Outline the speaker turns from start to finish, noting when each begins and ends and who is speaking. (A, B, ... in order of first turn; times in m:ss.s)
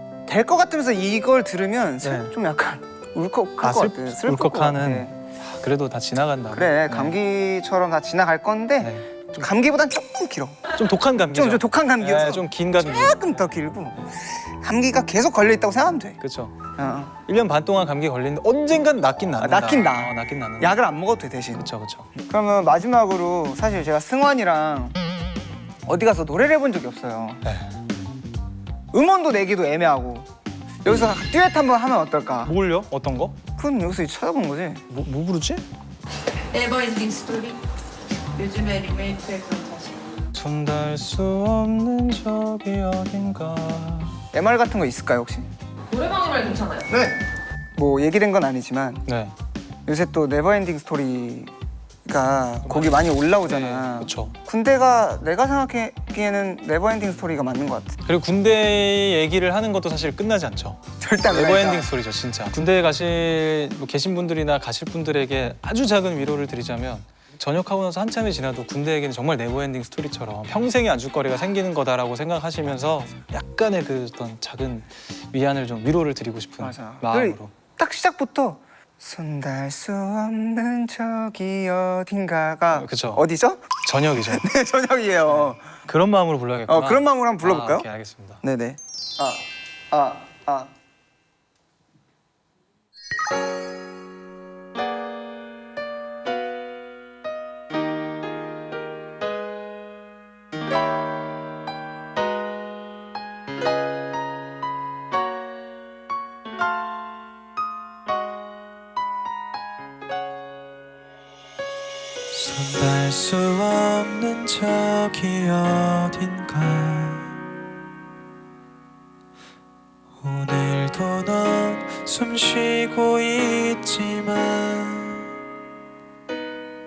0:00.3-0:05.1 A
0:02.0-0:02.3 B
0:03.6-0:07.2 B
0:06.5-0:10.6 A
0:08.8-0:09.3 B
0:10.7-0:13.3 B
0:11.3-0:16.2 A
0:16.2-0:16.6 B
0:16.8-0:17.1 A
0:17.2-0:20.8 B
0:19.4-0:21.6 A
0:21.6-0:22.1 B
0:22.2-0:25.0 A
0:25.9-0:27.4 A
0:27.4-0:27.7 B
0:28.9-0:30.3 A
0:30.8-0:32.5 A
0:32.4-0:33.4 B
0:33.6-0:34.8 A
0:34.9-0:35.6 B
0:36.5-0:37.6 C
0:38.4-0:40.0 C
0:40.3-0:44.2 B
0:44.3-0:45.5 A
0:45.9-0:46.9 C
0:46.9-0:47.2 A
0:47.8-0:49.0 A
0:49.1-0:49.4 B
0:49.9-0:51.5 A
0:52.0-0:58.0 A
0:52.6-0:54.4 B
0:58.1-1:17.5 B
1:01.0-1:01.9 A
1:16.6-1:25.6 A
1:22.7-1:23.2 B
1:23.8-1:24.4 B
1:25.3-1:28.4 B
1:26.7-1:27.8 A
1:28.4-1:30.7 A
1:52.3-1:57.3 B
2:00.2-2:05.3 B